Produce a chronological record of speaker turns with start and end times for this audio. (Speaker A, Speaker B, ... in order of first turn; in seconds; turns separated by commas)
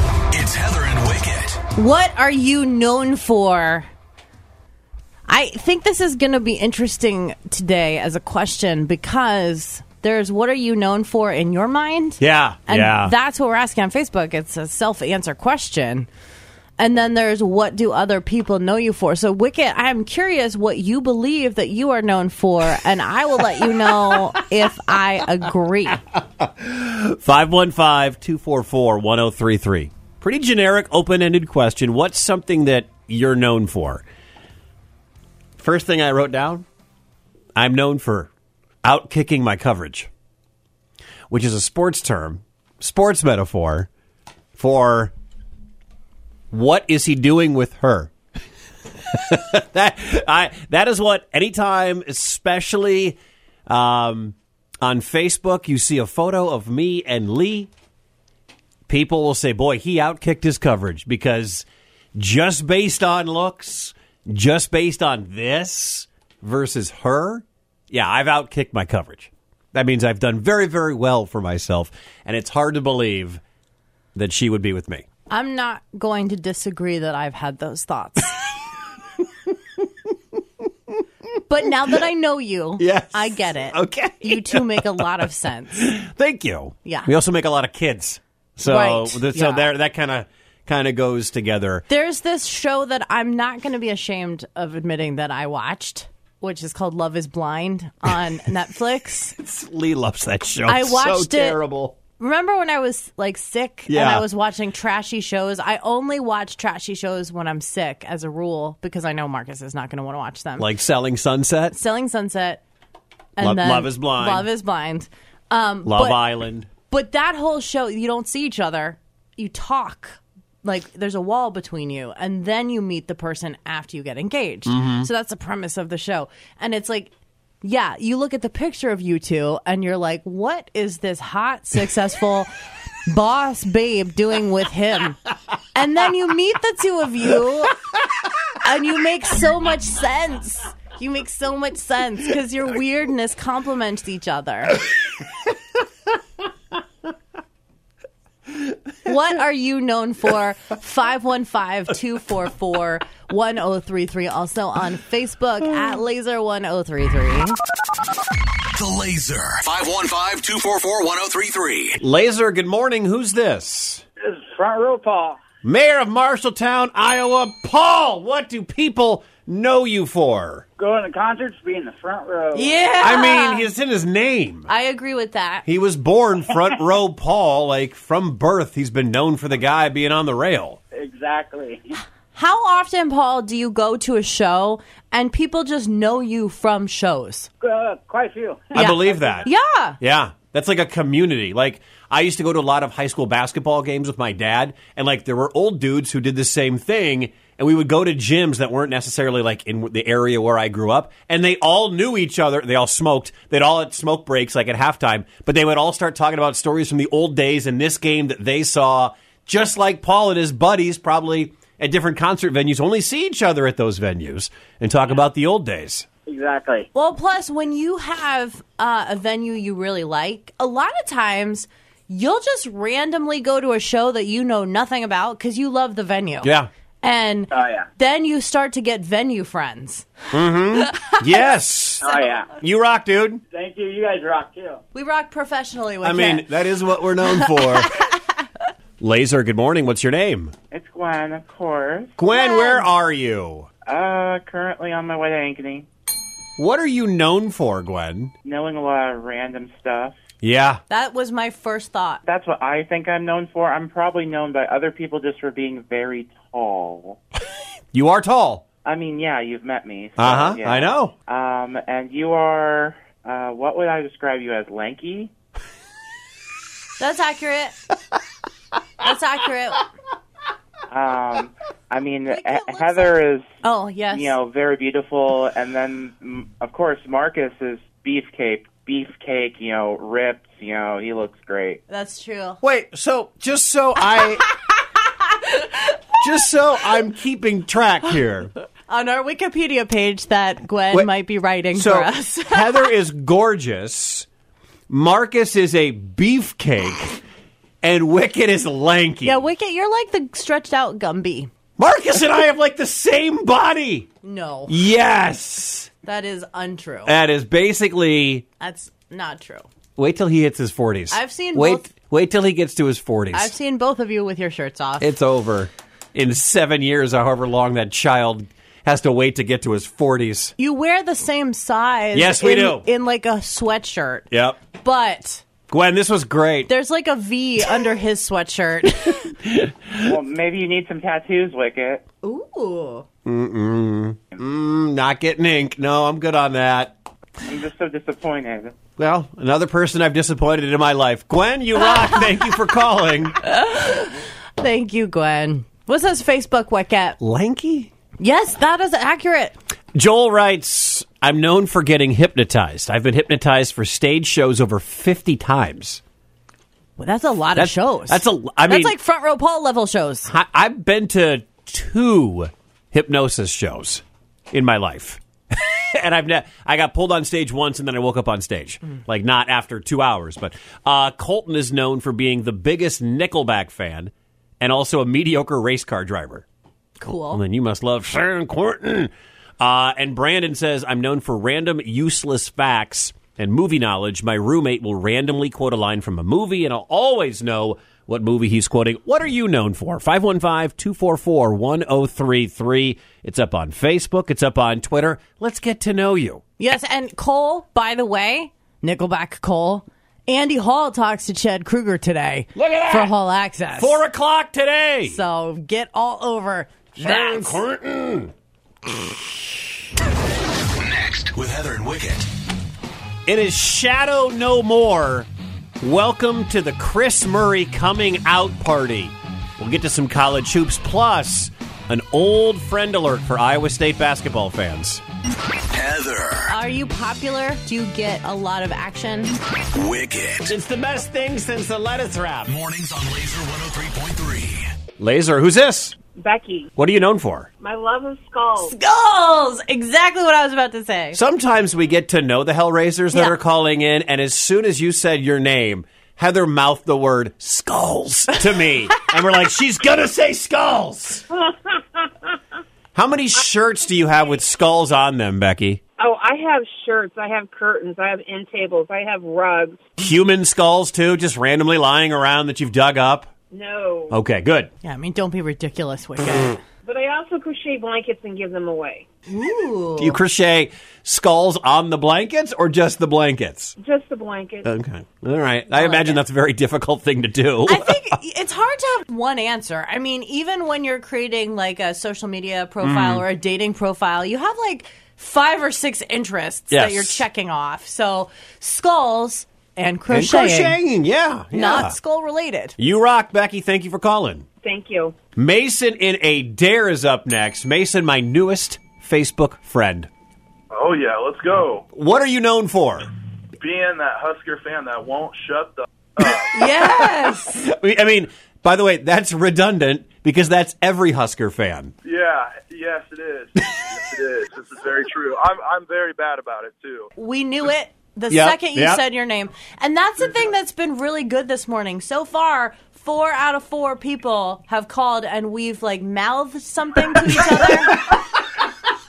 Speaker A: 0.3-1.6, Speaker B: 1.8-3.9, Speaker B: 5.3-16.1, Speaker C: 12.2-13.1, Speaker B: 16.8-26.0, Speaker C: 26.4-34.0, Speaker C: 35.6-36.6, Speaker C: 37.5-38.3, Speaker C: 38.8-40.1, Speaker C: 41.3-43.9, Speaker C: 44.6-45.1, Speaker C: 46.5-48.1, Speaker C: 49.1-57.7, Speaker C: 58.9-73.4, Speaker C: 74.2-75.0, Speaker B: 75.3-78.4, Speaker B: 81.5-85.9, Speaker C: 82.8-85.1, Speaker C: 85.8-91.8, Speaker B: 86.8-87.1, Speaker B: 88.7-89.7, Speaker B: 91.9-99.3, Speaker C: 99.4-102.0, Speaker B: 100.7-101.6, Speaker B: 102.2-110.7, Speaker C: 103.9-104.2, Speaker C: 110.6-111.8, Speaker B: 111.7-112.6, Speaker B: 113.4-116.2, Speaker C: 113.4-114.5, Speaker C: 115.8-116.7, Speaker B: 116.9-127.1, Speaker C: 124.7-125.1, Speaker B: 127.6-132.5, Speaker B: 133.1-135.2, Speaker B: 135.7-137.8, Speaker B: 138.6-144.8, Speaker B: 149.1-157.6, Speaker A: 158.7-162.0, Speaker C: 162.0-164.0, Speaker D: 164.2-165.4, Speaker C: 165.6-170.7, Speaker D: 170.8-172.7, Speaker B: 172.6-173.7, Speaker C: 173.0-174.7, Speaker B: 174.7-175.7, Speaker C: 175.7-180.8, Speaker D: 180.9-181.9, Speaker B: 182.3-187.5, Speaker D: 187.6-189.5, Speaker C: 188.7-189.5, Speaker B: 188.7-190.0, Speaker C: 190.0-216.1, Speaker D: 216.3-216.9, Speaker B: 216.9-226.5, Speaker C: 226.4-226.7, Speaker B: 227.0-230.1, Speaker D: 227.5-227.9, Speaker C: 230.3-232.1, Speaker B: 230.9-231.2, Speaker D: 232.0-232.5, Speaker C: 232.6-233.4, Speaker D: 233.5-234.8, Speaker B: 234.9-236.5, Speaker C: 236.0-237.9, Speaker B: 237.3-238.1, Speaker C: 239.0-240.5, Speaker E: 240.7-242.2, Speaker C: 242.2-243.7, Speaker B: 242.3-242.9, Speaker E: 243.9-245.9, Speaker C: 246.6-248.3, Speaker E: 248.4-250.2, Speaker C: 250.4-250.8, Speaker B: 250.9-252.2, Speaker E: 252.2-257.2, Speaker C: 257.9-258.6, Speaker E: 258.9-265.3, Speaker C: 260.2-261.1, Speaker B: 267.0-267.8, Speaker B: 269.0-269.9, Speaker E: 270.9-273.5, Speaker B: 272.3-274.4, Speaker E: 274.1-281.8, Speaker B: 281.9-282.6, Speaker C: 282.6-284.4, Speaker B: 285.4-285.9, Speaker C: 286.2-288.5, Speaker B: 288.9-292.9, Speaker C: 291.8-294.3, Speaker C: 294.9-297.2, Speaker C: 297.8-299.4, Speaker B: 299.2-301.5, Speaker C: 301.8-304.1, Speaker B: 304.2-304.8, Speaker C: 304.7-305.9, Speaker B: 306.0-307.1, Speaker C: 307.1-308.5, Speaker B: 308.6-309.7, Speaker C: 310.0-313.5, Speaker B: 311.1-311.9, Speaker B: 313.3-315.1, Speaker C: 315.0-320.5, Speaker B: 320.6-324.3, Speaker C: 322.1-322.8, Speaker C: 324.3-324.6, Speaker B: 324.8-325.4, Speaker C: 325.7-326.7, Speaker B: 326.7-329.2, Speaker C: 329.4-330.1, Speaker E: 330.0-332.1, Speaker B: 332.2-333.1, Speaker C: 333.2-336.9, Speaker E: 337.4-338.8, Speaker C: 339.0-343.4, Speaker B: 343.4-347.2, Speaker C: 347.2-347.9, Speaker B: 348.2-349.6, Speaker C: 349.9-356.0, Speaker B: 357.0-360.3, Speaker C: 357.6-358.9, Speaker C: 360.3-376.4, Speaker B: 377.0-377.4, Speaker C: 377.3-396.4, Speaker B: 396.6-404.0, Speaker C: 402.6-403.1, Speaker C: 403.8-405.2, Speaker B: 405.1-407.6, Speaker C: 407.0-408.3, Speaker C: 408.9-409.6, Speaker A: 410.7-412.3, Speaker C: 413.3-415.3, Speaker C: 415.8-425.0, Speaker A: 425.7-426.5, Speaker B: 426.5-429.4, Speaker A: 429.8-430.5, Speaker C: 430.5-432.5, Speaker A: 432.5-434.7, Speaker C: 435.0-436.0, Speaker F: 436.1-436.7, Speaker C: 436.8-437.5, Speaker F: 437.6-438.8, Speaker B: 438.6-441.2, Speaker C: 441.1-451.3, Speaker C: 452.9-455.8, Speaker F: 456.0-459.9, Speaker C: 460.0-463.3, Speaker F: 463.5-464.2, Speaker C: 464.1-464.7, Speaker B: 464.8-466.6, Speaker F: 466.8-469.1, Speaker B: 469.3-470.2, Speaker C: 470.0-473.8, Speaker F: 473.8-474.7, Speaker C: 474.6-478.1, Speaker B: 475.7-476.2, Speaker B: 477.7-490.8, Speaker C: 482.8-483.2, Speaker C: 486.7-487.2, Speaker C: 490.1-492.0, Speaker B: 491.5-492.8, Speaker C: 492.8-494.4, Speaker F: 494.6-495.1, Speaker C: 495.4-500.1, Speaker G: 500.7-501.9, Speaker C: 501.9-503.1, Speaker G: 503.6-506.5, Speaker B: 506.5-507.6, Speaker C: 506.8-511.9, Speaker G: 512.0-517.1, Speaker B: 517.2-528.1, Speaker C: 518.3-519.0, Speaker C: 527.4-528.1